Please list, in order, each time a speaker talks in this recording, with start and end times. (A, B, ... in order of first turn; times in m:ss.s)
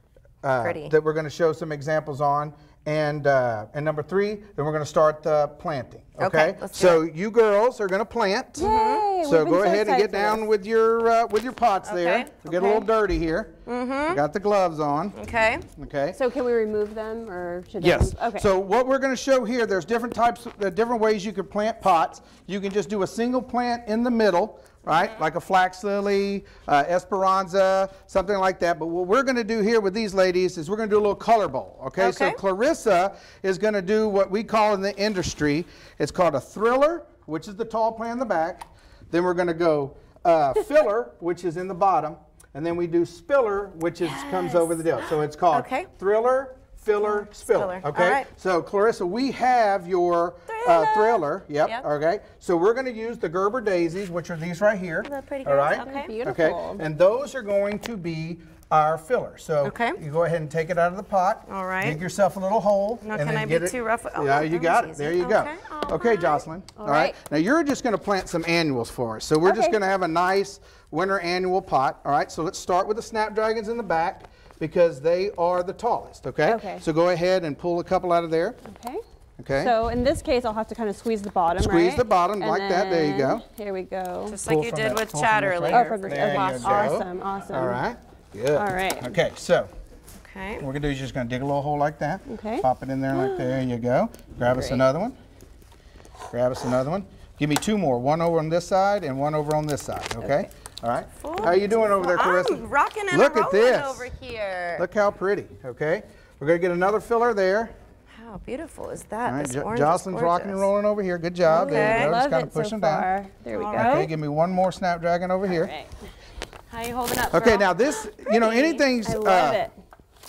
0:00.4-0:08.7 A
0:00.6-0:00.9 B
0:06.2-0:07.0 B
0:08.6-0:10.4 C
0:08.6-0:09.1 B
0:09.2-0:13.5 A
0:11.8-0:12.8 B
0:13.6-0:14.2 B
0:14.1-0:15.2 A
0:15.1-0:15.6 B
0:15.8-0:16.2 A
0:16.1-0:18.5 C
0:17.8-1:18.6 A
0:32.0-0:32.4 B
0:44.0-0:45.9 B
0:47.0-0:48.3 B
0:50.5-0:51.8 B
0:55.0-0:56.1 B
0:55.8-0:56.8 C
0:59.6-1:00.0 B
1:01.5-1:02.0 B
1:03.0-1:06.4 B
1:06.8-1:07.1 C
1:09.4-1:09.8 C
1:16.4-1:16.8 C
1:18.6-1:19.0 C
1:19.4-1:19.7 A
1:19.5-1:24.4 C
1:21.6-1:23.4 A
1:24.3-1:27.0 B
1:24.4-1:29.7 A
1:25.7-1:27.8 C
1:28.5-1:29.2 C
1:30.2-1:30.6 B
1:30.6-1:35.2 A
1:32.3-1:33.6 C
1:34.5-1:34.8 C
1:36.3-1:44.1 A
1:40.2-1:40.4 B
1:41.2-1:44.8 B
1:44.8-1:47.7 A
1:48.1-1:50.7 B
1:49.2-1:53.1 A
1:51.5-1:54.1 C
1:51.5-1:52.1 B
1:53.5-1:54.1 B
1:53.7-1:55.7 A
1:55.4-1:55.9 C
1:56.7-1:58.9 B
1:57.3-1:59.6 A
1:59.0-1:59.7 C